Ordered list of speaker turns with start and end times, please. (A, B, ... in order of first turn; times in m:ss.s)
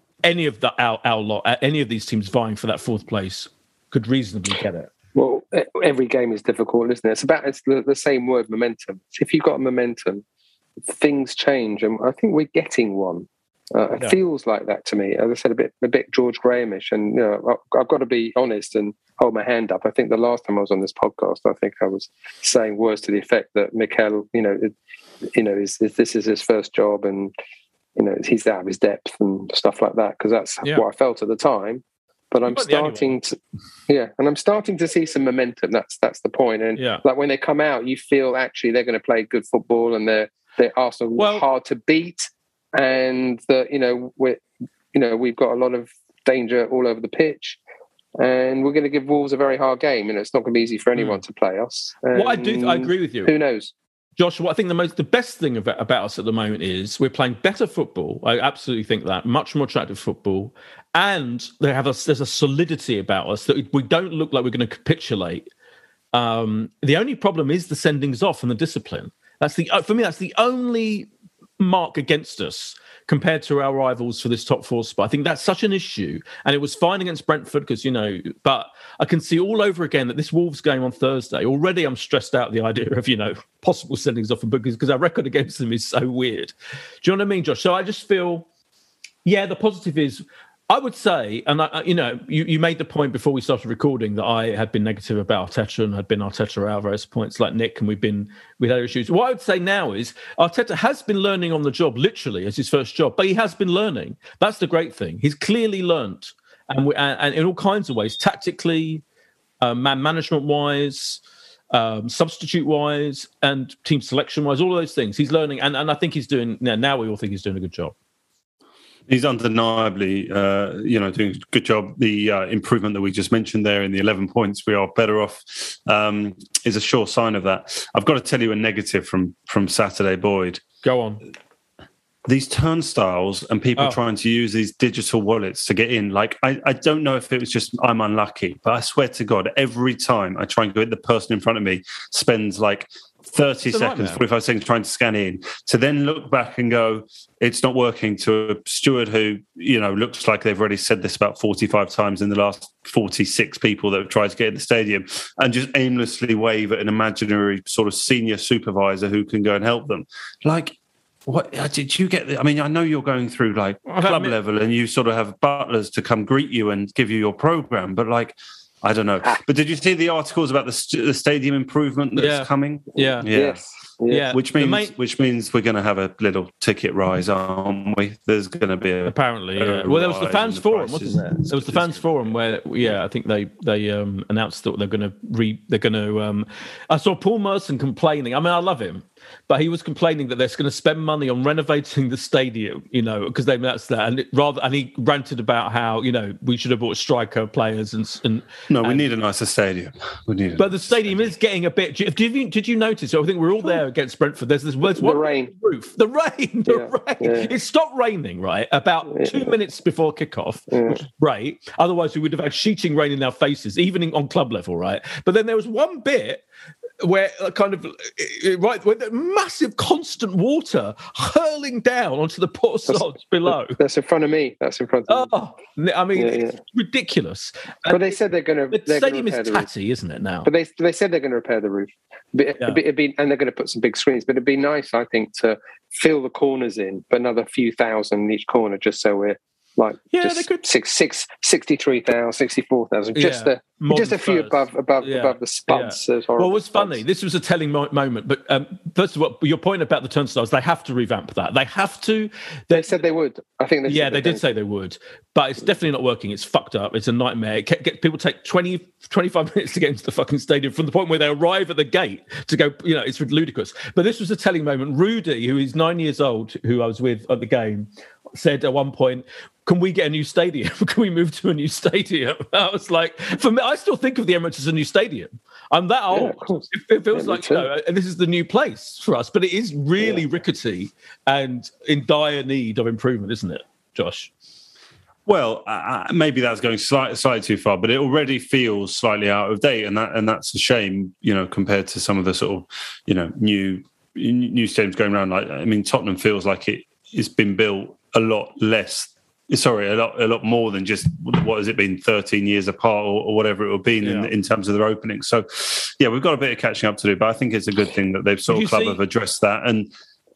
0:00.2-0:04.9 A
0:05.1-0:10.2 B
0:10.9-0:24.7 B
0:25.3-0:27.3 B
0:28.0-0:33.3 B
0:32.5-0:33.2 A
0:33.9-0:44.4 B
0:36.8-0:37.0 A
0:41.2-0:41.5 A
0:44.9-0:47.6 B
0:48.2-0:53.7 B
0:52.1-0:53.3 A
0:54.2-1:05.5 A
1:06.1-1:28.4 A
1:29.2-1:49.0 A
1:49.6-1:51.2 A
1:51.7-1:57.9 A
1:59.1-2:10.6 C
2:10.8-2:11.2 A
2:12.2-2:40.8 C
2:23.7-2:24.2 A
2:41.3-2:53.6 C
2:43.9-2:44.3 A
2:52.2-2:53.3 A
2:53.3-2:54.3 B
2:54.1-2:54.9 A
2:54.3-3:02.3 C
2:59.1-3:19.0 A
3:18.7-3:21.2 C
3:20.6-3:36.4 A
3:24.9-3:25.5 B
3:26.7-3:27.5 B
3:29.1-3:29.5 B
3:30.7-3:31.0 B
3:37.0-3:43.8 A
3:42.9-3:45.3 B
3:45.1-3:48.1 A
3:46.2-3:46.6 B
3:47.9-3:49.7 B
3:48.7-3:50.5 A
3:50.4-4:07.0 B
4:00.1-4:00.6 A
4:03.1-4:12.9 A
4:12.7-4:14.4 B
4:13.9-4:44.3 A
4:36.1-4:37.7 B
4:45.2-5:09.9 C
5:04.0-5:04.3 A
5:08.5-5:09.0 A